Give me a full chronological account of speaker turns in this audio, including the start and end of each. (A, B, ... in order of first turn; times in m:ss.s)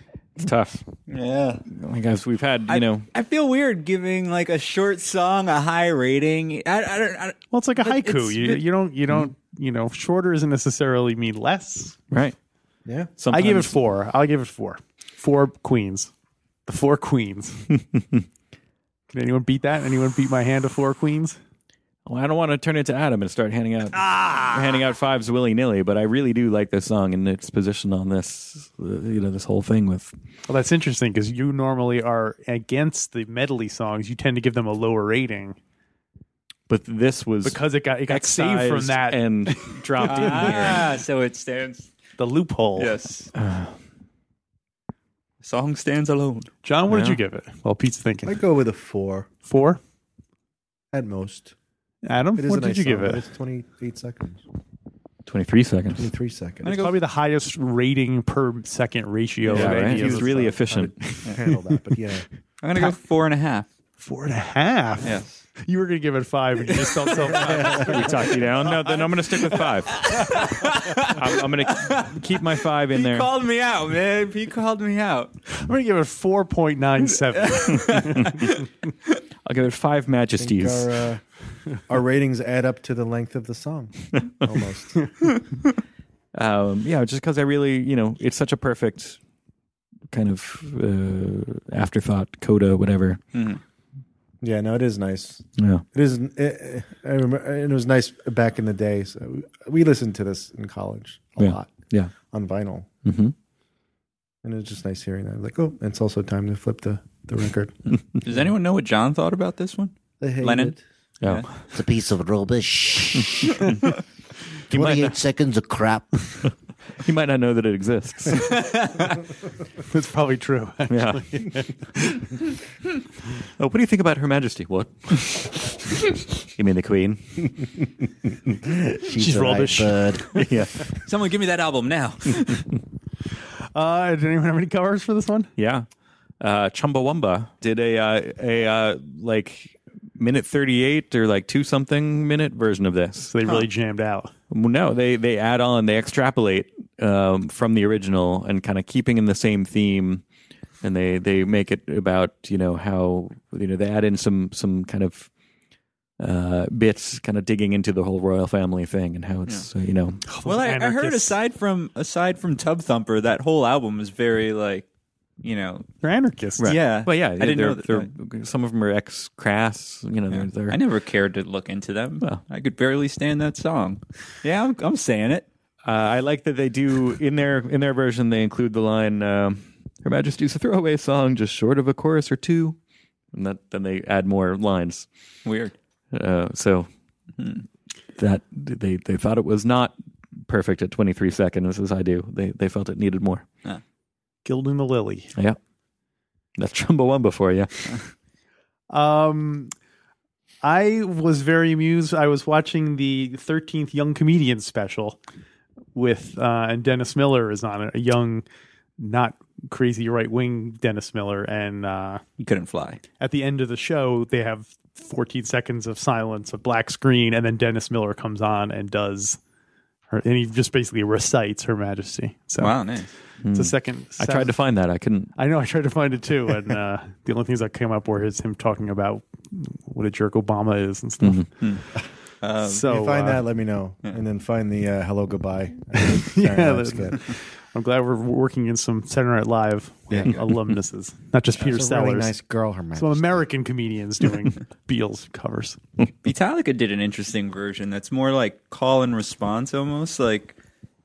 0:00.4-0:00.9 A
0:01.1-0:01.6 B
0:01.7-0:03.1 A
0:02.7-0:08.6 B
0:07.5-0:12.0 C
0:12.1-0:12.4 A
0:12.9-0:13.1 D
0:13.2-0:13.8 A
0:13.3-0:16.1 C
0:16.7-0:17.7 C
0:19.1-0:21.4 C
0:22.1-0:30.1 A
0:30.5-0:35.6 C
0:36.7-0:40.9 A
0:37.4-0:40.9 C
0:40.0-0:41.9 B
0:42.2-0:43.0 C
0:42.8-0:43.3 B
0:43.4-0:43.7 A
0:45.4-0:46.5 B
0:46.6-0:48.4 C
0:46.9-0:47.2 A
0:48.2-0:49.3 D
0:49.4-0:49.8 C
0:50.9-0:51.5 D
0:52.0-0:53.2 C
0:52.4-0:54.4 D
0:55.2-0:56.1 A
0:56.0-0:56.7 D
0:56.6-0:57.0 B
0:56.7-1:00.6 C
0:59.5-1:01.2 A
0:59.5-1:02.3 D
1:01.2-1:01.8 C
1:02.6-1:03.7 B
1:04.0-1:08.7 C
1:05.0-1:05.4 B
1:07.4-1:10.4 A
1:08.7-1:15.3 B
1:11.0-1:13.3 A
1:15.5-1:18.5 C
1:17.2-1:18.6 B
1:17.9-1:18.4 A
1:19.5-1:20.9 A
1:20.4-1:21.2 D
1:21.9-1:25.0 D
1:24.1-1:24.4 A
1:26.3-1:29.2 A
1:30.1-1:33.2 A
1:33.3-1:33.6 B
1:34.4-1:41.8 D
1:35.6-1:35.8 A
1:41.4-1:42.1 A
1:42.3-1:42.9 D
1:43.0-1:43.3 A
1:44.4-1:47.9 D
1:48.2-1:51.6 B
1:50.2-1:50.8 D
1:51.2-1:51.6 A
1:51.7-1:53.5 E
1:54.7-1:55.2 A
1:54.7-1:56.1 E
1:56.5-1:58.5 A
1:58.3-1:59.2 B
1:59.8-2:02.4 C
2:00.9-2:01.3 A
2:03.6-2:05.8 A
2:06.4-2:07.5 A
2:09.0-2:10.2 E
2:09.0-2:10.5 C
2:10.4-2:10.9 A
2:11.0-2:12.7 B
2:13.3-2:15.5 C
2:15.6-2:15.9 A
2:16.4-2:23.5 A
2:23.2-2:24.3 C
2:24.5-2:30.2 A
2:30.8-2:35.3 A
2:36.2-2:40.2 A
2:40.3-2:41.4 C
2:40.4-2:44.9 B
2:45.4-2:45.9 B
2:46.0-2:46.7 C
2:46.6-2:50.8 A
2:46.6-2:48.1 B
2:50.3-2:55.4 B
2:55.8-3:02.8 A
3:03.3-3:05.1 A
3:05.4-3:05.7 B
3:06.1-3:06.9 A
3:07.4-3:07.7 B
3:08.2-3:13.4 A
3:14.4-3:15.3 C
3:16.6-3:18.0 A
3:18.9-3:19.7 C
3:20.6-3:25.2 C
3:26.0-3:28.4 C
3:29.0-3:32.2 C
3:32.4-3:33.0 B
3:33.2-3:39.4 C
3:40.1-3:43.0 C
3:42.6-3:43.1 B
3:43.4-3:45.3 A
3:43.5-3:44.6 C
3:45.4-3:51.8 C
3:51.2-3:51.5 A
3:52.4-3:52.8 B
3:52.6-3:53.5 C
3:52.8-3:57.2 D
3:56.0-4:02.3 C
4:00.1-4:00.4 D
4:01.6-4:03.5 D
4:03.0-4:05.8 C
4:06.2-4:10.6 B